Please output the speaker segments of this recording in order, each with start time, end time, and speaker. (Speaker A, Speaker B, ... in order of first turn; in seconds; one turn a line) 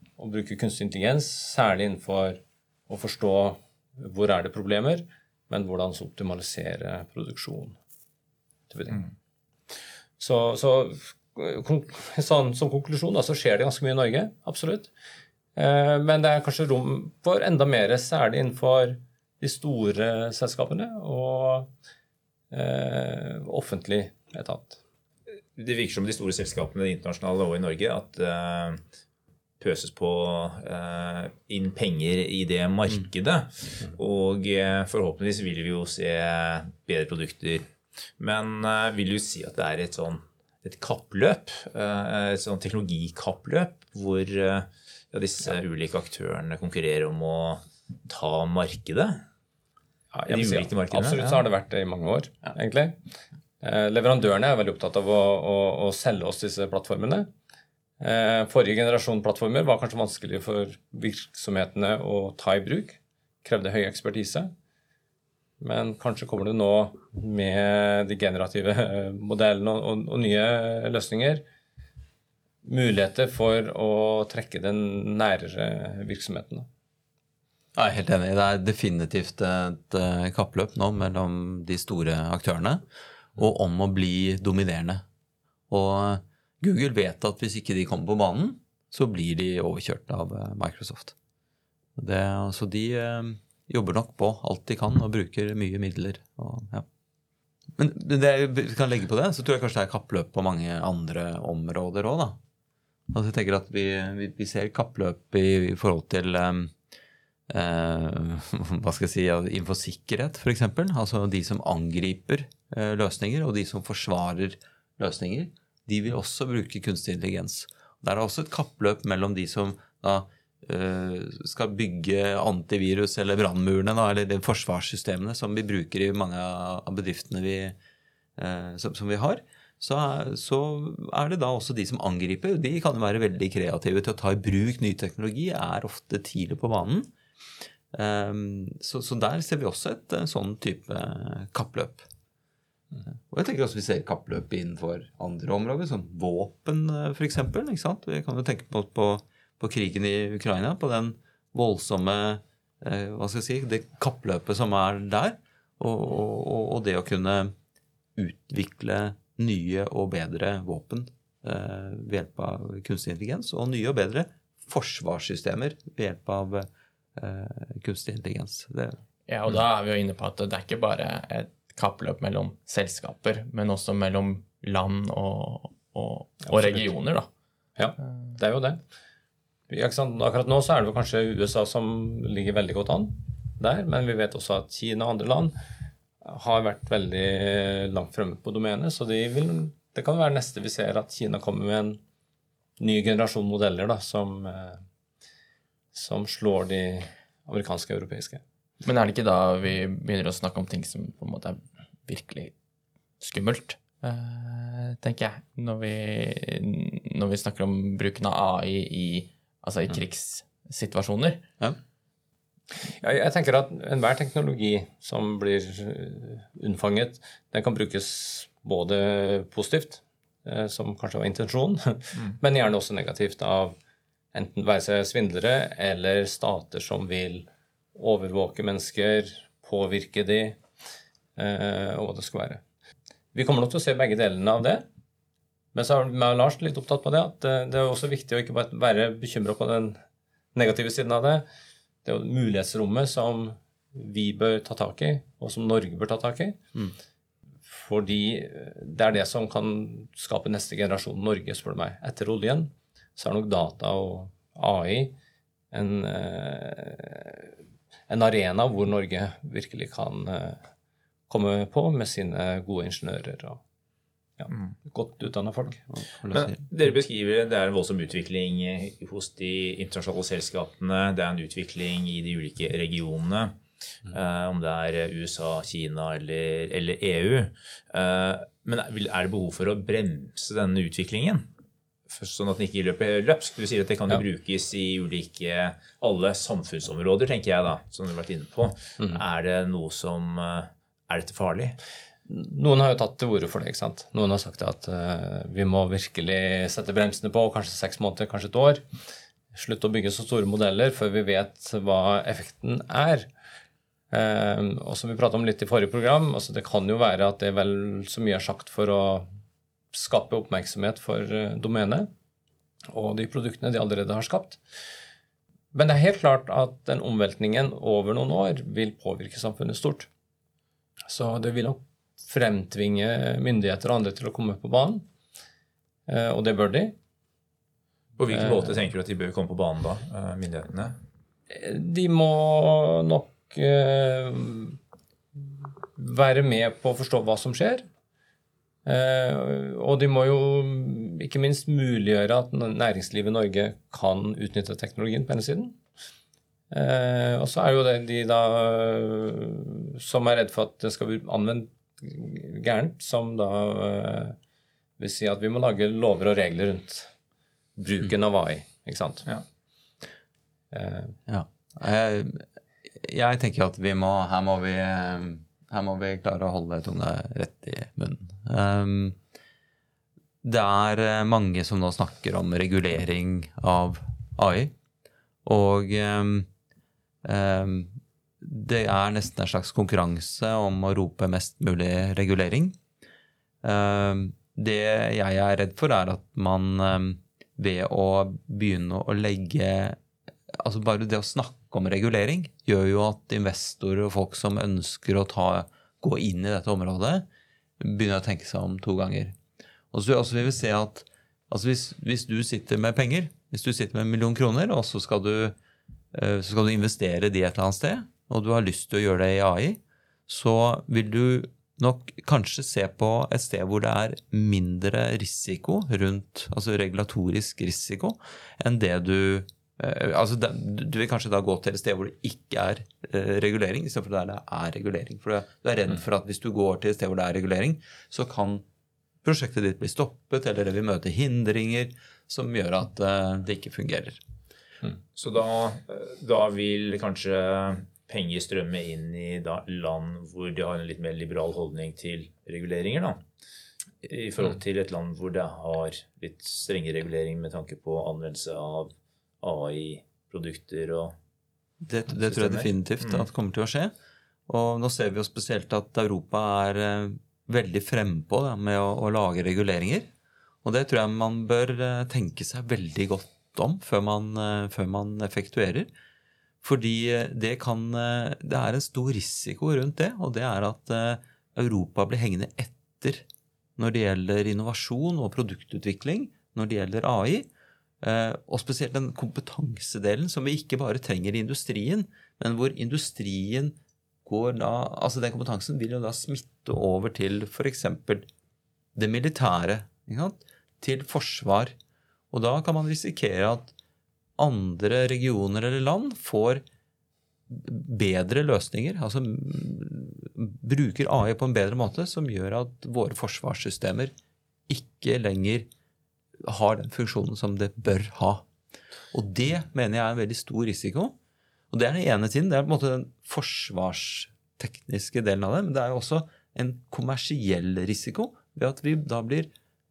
Speaker A: 0.2-7.8
Speaker A: 8.7-9.0
Speaker A: 10.2-14.9
Speaker A: 15.6-21.7
Speaker A: 22.5-24.8
Speaker B: 25.6-28.8
Speaker B: 29.6-37.7
Speaker B: 38.2-49.2
Speaker A: 50.1-53.0
Speaker B: 50.3-51.4
Speaker A: 53.6-57.3
Speaker A: 58.0-64.5
Speaker A: 65.6-71.4
Speaker A: 72.6-76.7
Speaker C: 77.7-82.8
Speaker C: 83.3-85.0
Speaker C: 85.7-91.1
Speaker C: 92.0-96.8
Speaker C: 97.8-102.4
Speaker C: 103.1-106.7
Speaker C: 107.5-127.7
Speaker C: 128.4-137.1
Speaker C: 137.9-142.1
Speaker C: 143.3-157.5
Speaker C: 158.2-169.0
Speaker D: 169.3-177.3
Speaker A: 176.5-176.9
Speaker A: 177.8-178.8
Speaker A: 179.7-185.6
Speaker A: 186.2-192.0
Speaker A: 192.8-194.8
Speaker A: 195.9-198.4
Speaker D: 198.8-202.5
Speaker D: 203.2-211.4
Speaker A: 213.0-223.8
Speaker A: 224.3-230.6
Speaker A: 231.3-232.6
Speaker A: 233.3-234.8
Speaker A: 235.7-240.0
Speaker A: 240.5-241.4
Speaker A: 242.0-246.6
Speaker A: 247.7-255.1
Speaker A: 255.7-257.5
Speaker A: 258.1-260.6
Speaker A: 261.3-263.6
Speaker A: 264.4-265.8
Speaker C: 265.9-266.6
Speaker B: 266.3-281.5
Speaker B: 282.1-291.8
Speaker A: 292.2-298.8
Speaker A: 299.5-303.3
Speaker A: 304.1-309.3
Speaker A: 309.9-312.1
Speaker A: 312.9-314.6
Speaker A: 315.7-320.1
Speaker A: 321.1-325.1
Speaker A: 326.1-326.9
Speaker B: 328.2-331.0
Speaker A: 328.3-328.7
Speaker A: 331.5-334.8
Speaker A: 335.9-337.8
Speaker A: 338.9-345.8
Speaker A: 346.7-354.4
Speaker A: 355.0-357.1
Speaker A: 357.8-359.2
Speaker A: 360.7-361.2
Speaker C: 361.3-362.4
Speaker C: 363.0-369.2
Speaker C: 370.4-374.7
Speaker C: 375.4-376.5
Speaker C: 377.2-382.8
Speaker C: 383.6-390.0
Speaker C: 390.5-397.2
Speaker C: 397.8-399.4
Speaker C: 399.9-405.5
Speaker C: 406.1-428.6
Speaker C: 429.2-434.2
Speaker B: 435.1-443.2
Speaker B: 444.0-448.9
Speaker B: 449.4-451.1
Speaker C: 451.8-453.9
Speaker B: 452.1-453.2
Speaker C: 454.5-460.1
Speaker C: 460.6-465.9
Speaker C: 466.6-473.2
Speaker C: 473.8-477.5
Speaker C: 478.0-488.2
Speaker C: 488.9-491.7
Speaker C: 492.3-493.7
Speaker C: 494.4-496.6
Speaker C: 497.5-504.1
Speaker C: 504.7-505.7
Speaker C: 506.4-508.4
Speaker C: 509.1-511.1
Speaker C: 511.7-519.5